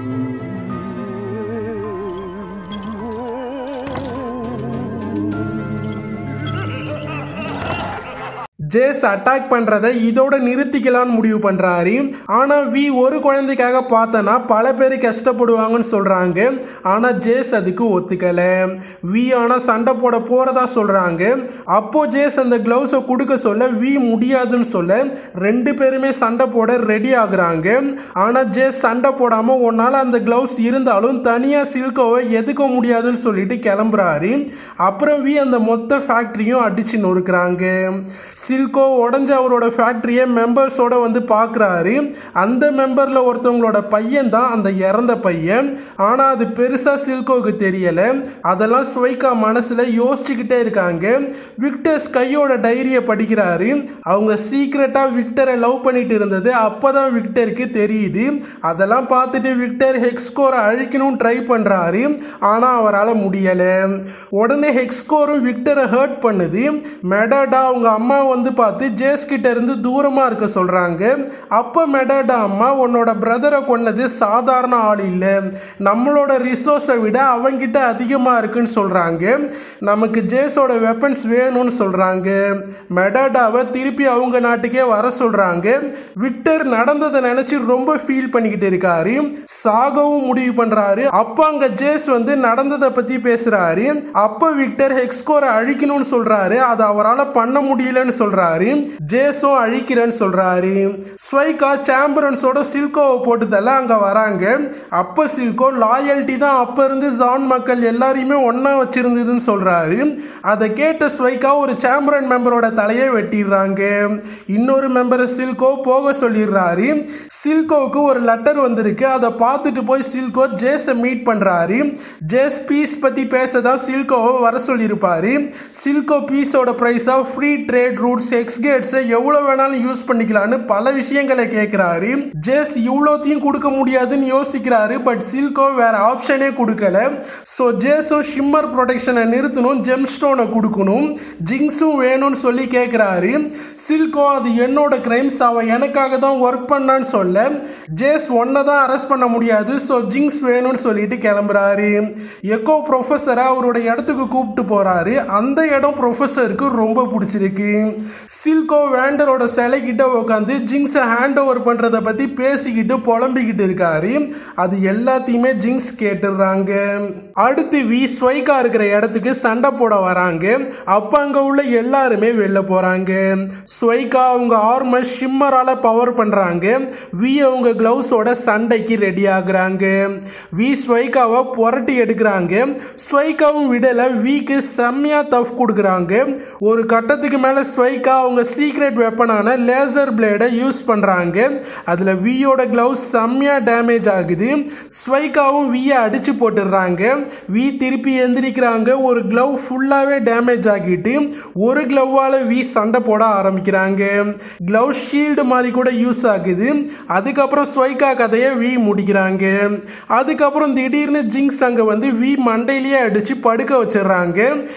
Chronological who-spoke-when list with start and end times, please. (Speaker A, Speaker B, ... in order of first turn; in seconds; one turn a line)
Speaker A: 8.7-147.5
Speaker A: 148.0-214.5